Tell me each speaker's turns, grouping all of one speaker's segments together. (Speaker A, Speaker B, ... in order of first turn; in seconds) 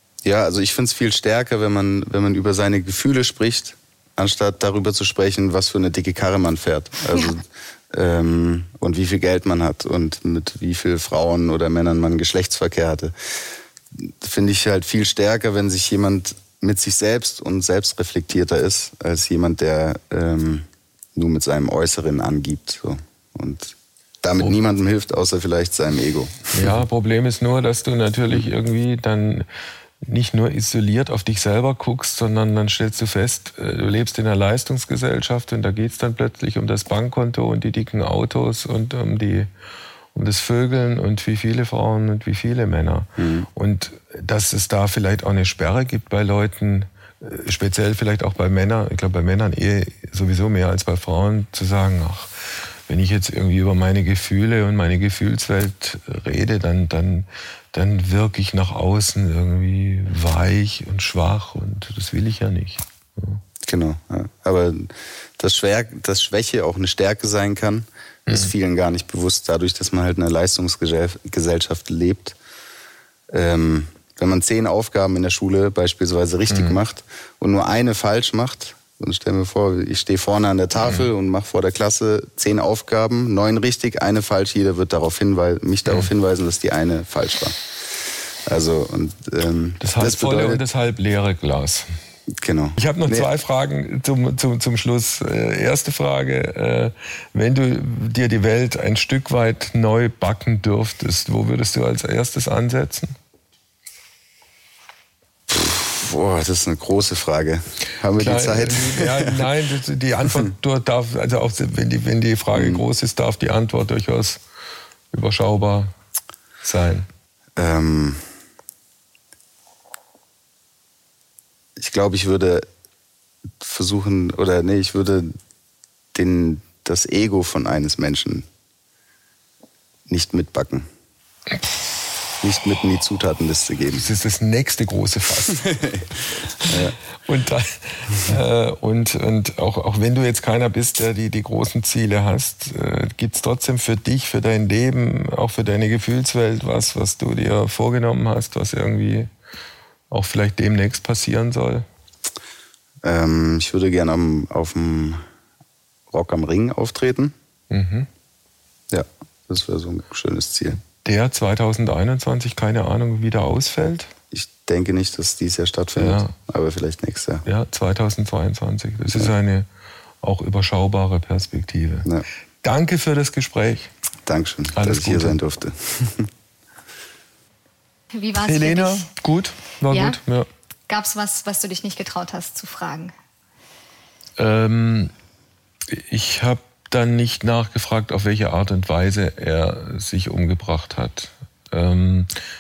Speaker A: 0.2-13.4, 13.9-26.8, 43.2-43.5, 63.6-72.4, 73.3-90.6, 92.4-93.3, 105.5-109.5, 112.5-112.8, 117.6-118.2, 121.8-122.7, 123.6-125.3, 126.1-128.5, 130.1-130.9, 132.4-134.1, 135.7-136.1, 136.7-137.0, 153.0-155.2, 156.1-157.3, 158.9-160.8, 164.3-167.4, 174.3-176.3
Speaker B: 26.5-29.5, 30.0-39.5, 40.1-63.4, 68.3-68.5, 76.5-76.8, 89.8-91.9, 92.8-103.2, 108.1-114.4, 115.1-115.9, 116.6-117.1, 134.0-135.7, 136.6-149.3, 150.1-151.9, 157.7-158.1, 161.0-164.1, 166.0-166.3, 167.4-169.7, 170.2-172.1, 172.6-173.9, 174.7-175.4, 178.4-180.5, 184.4-185.1, 185.9-192.3
Speaker C: 178.1-179.1, 179.9-180.2, 180.9-183.1